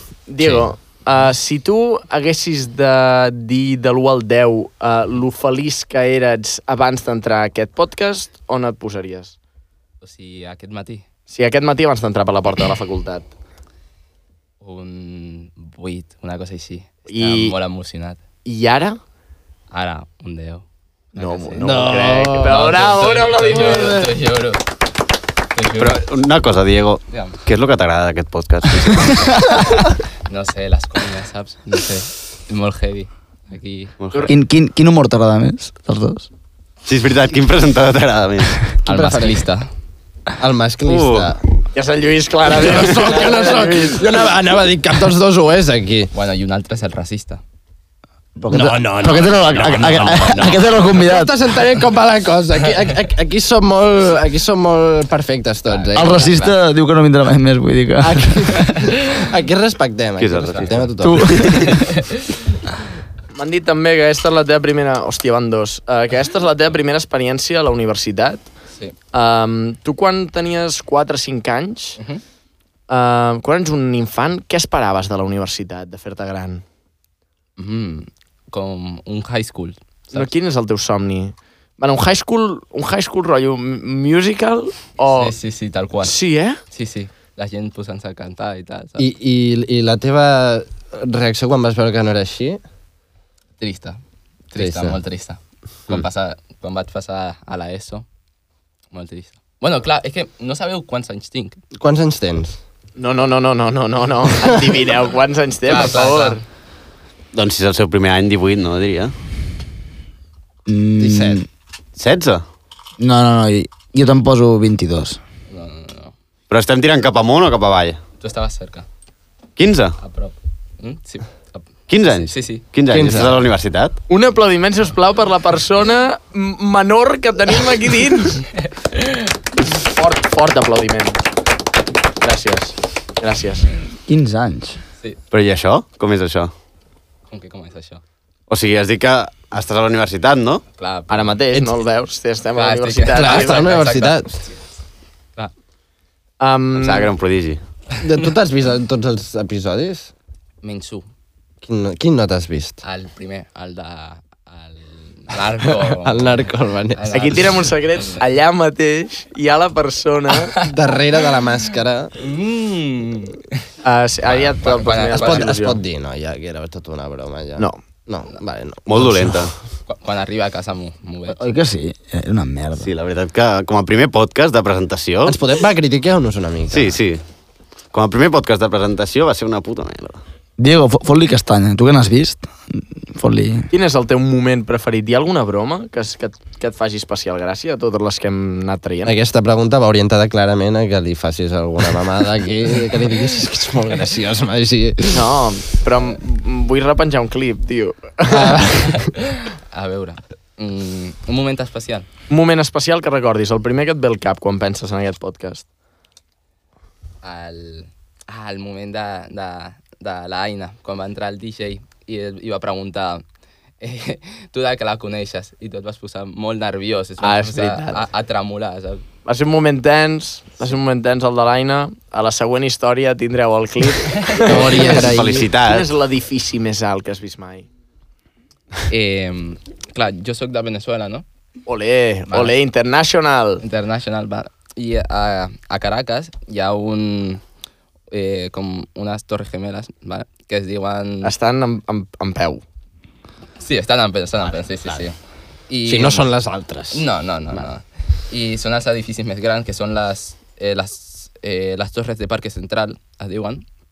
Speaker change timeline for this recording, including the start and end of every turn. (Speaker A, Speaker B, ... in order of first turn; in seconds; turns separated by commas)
Speaker A: 0.3-9.3, Speaker B: 10.0-11.0, Speaker A: 11.3-13.3, Speaker B: 14.6-18.2, Speaker A: 17.1-17.6, Speaker A: 18.4-19.0, Speaker B: 19.7-21.8, Speaker A: 21.1-24.1, Speaker C: 21.6-22.7, Speaker B: 22.4-24.6, Speaker C: 23.6-23.9, Speaker B: 25.5-26.0, Speaker D: 25.8-29.3, Speaker B: 27.1-27.4, Speaker B: 30.3-33.9, Speaker D: 34.0-34.3, Speaker E: 34.3-36.3, Speaker D: 36.9-38.8, Speaker C: 38.9-39.4, Speaker B: 38.9-39.7, Speaker C: 40.4-41.4, Speaker D: 40.9-41.3, Speaker A: 41.7-44.1, Speaker C: 42.5-46.1, Speaker B: 46.1-47.4, Speaker E: 48.4-51.3, Speaker C: 48.5-56.2, Speaker B: 55.7-56.5, Speaker E: 55.9-58.7, Speaker C: 58.0-61.5, Speaker D: 60.2-61.6, Speaker B: 60.5-60.8, Speaker E: 61.0-61.8, Speaker B: 61.7-62.2, Speaker A: 63.3-68.5, Speaker A: 69.1-72.0, Speaker A: 72.9-76.6, Speaker B: 77.6-80.3, Speaker A: 80.1-85.3, Speaker B: 85.1-86.2, Speaker A: 86.0-86.6, Speaker B: 86.7-89.0, Speaker C: 89.0-92.6, Speaker B: 93.6-94.0, Speaker B: 94.5-98.0, Speaker C: 94.5-95.0, Speaker B: 98.9-101.6, Speaker C: 101.8-102.6, Speaker A: 103.0-106.4, Speaker B: 105.7-106.4, Speaker D: 107.3-109.1, Speaker E: 110.7-111.5, Speaker C: 111.0-111.4, Speaker D: 112.0-112.4, Speaker E: 113.0-115.2, Speaker B: 115.5-116.1, Speaker D: 116.5-118.0, Speaker B: 118.2-118.8, Speaker D: 119.6-120.0, Speaker B: 120.0-122.7, Speaker D: 121.9-124.0, Speaker C: 122.9-123.4, Speaker A: 124.1-128.4, Speaker B: 128.6-129.3, Speaker A: 129.8-131.2, Speaker A: 132.2-133.7, Speaker E: 134.1-134.8, Speaker D: 135.3-136.5, Speaker B: 137.3-138.0, Speaker D: 138.5-140.6, Speaker B: 140.8-141.4, Speaker A: 141.1-143.8, Speaker B: 142.5-144.6, Speaker C: 143.1-144.3, Speaker A: 146.4-147.1, Speaker D: 146.8-147.6, Speaker C: 148.0-150.1, Speaker B: 150.6-151.0, Speaker C: 151.6-152.8, Speaker B: 152.8-158.2, Speaker C: 156.0-157.4, Speaker A: 157.1-160.5, Speaker C: 160.6-162.1, Speaker B: 162.2-163.3, Speaker A: 163.8-165.8, Speaker B: 164.2-165.5, Speaker C: 165.1-169.4, Speaker D: 168.9-169.5, Speaker B: 169.9-171.4, Speaker E: 171.3-172.9, Speaker D: 172.8-175.3, Speaker C: 175.2-177.0, Speaker D: 176.7-177.2, Speaker D: 177.9-180.2, Speaker E: 180.6-183.7, Speaker A: 183.7-189.1, Speaker C: 189.0-195.2, Speaker A: 195.1-198.6, Speaker C: 198.3-199.1, Speaker B: 198.8-202.1, Speaker A: 202.3-205.6, Speaker B: 207.2-213.2, Speaker B: 213.8-219.0, Speaker A: 217.2-218.0, Speaker A: 219.2-227.7, Speaker B: 224.1-224.4, Speaker C: 224.4-225.5, Speaker D: 225.0-225.9, Speaker B: 228.9-231.2, Speaker A: 231.7-233.6, Speaker B: 232.3-232.5, Speaker B: 233.6-237.4, Speaker B: 238.1-241.3, Speaker A: 241.2-242.6, Speaker B: 243.6-245.2, Speaker B: 245.7-246.3, Speaker C: 245.8-247.0, Speaker B: 246.9-253.6